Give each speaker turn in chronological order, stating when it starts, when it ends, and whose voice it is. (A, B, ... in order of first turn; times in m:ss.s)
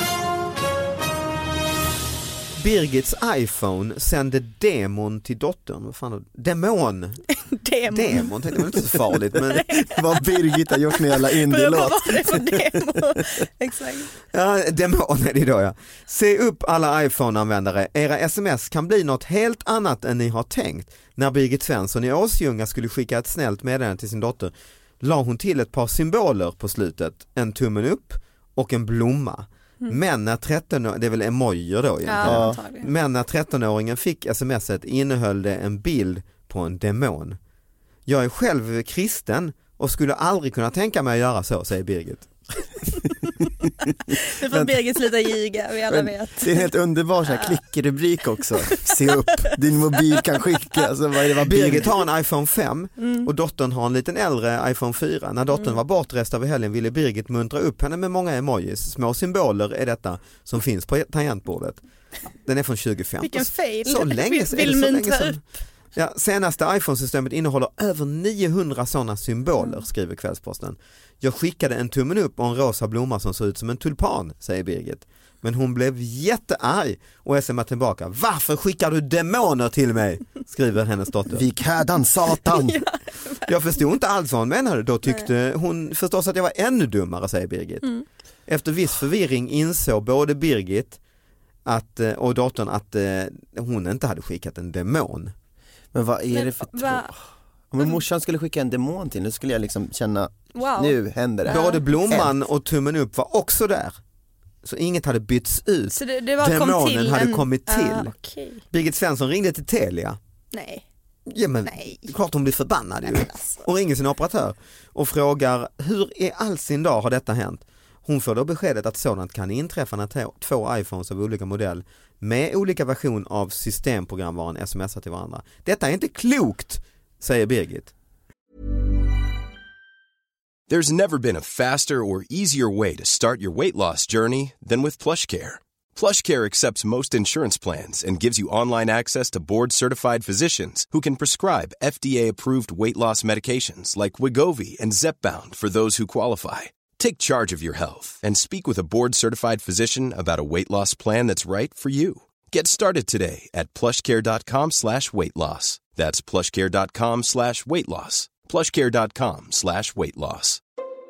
0:02.6-0:07.2 A
0:07.4-0:08.3 B
0:07.9-0:09.6 A
0:09.5-0:14.1 B
0:09.9-0:12.8 C
0:14.3-0:37.4 A
0:32.0-0:32.9 B
0:32.2-0:32.6 C
0:38.1-0:42.7 A
0:44.1-0:46.7 B
0:44.5-0:45.0 C
0:45.9-0:52.0 C
0:47.2-0:47.6 B
0:48.7-0:49.2 B
0:51.4-1:21.4 A
0:53.0-0:53.3 B
0:55.5-0:55.8 B
1:03.2-1:05.4 B
1:21.3-1:22.8 C
1:22.5-1:23.5 B
1:23.5-1:31.0 A
1:25.0-1:25.3 B
1:31.6-1:35.3 A
1:35.9-1:37.2 C
1:36.3-1:37.1 B
1:37.7-1:42.3 C
1:40.5-1:41.8 B
1:41.5-1:44.0 A
1:44.6-1:48.1 A
1:45.9-1:48.6 B
1:48.7-1:50.2 A
1:50.5-1:50.8 B
1:51.3-2:07.9 A
1:51.6-1:52.1 B
1:53.0-1:53.6 B
2:10.7-2:40.6 D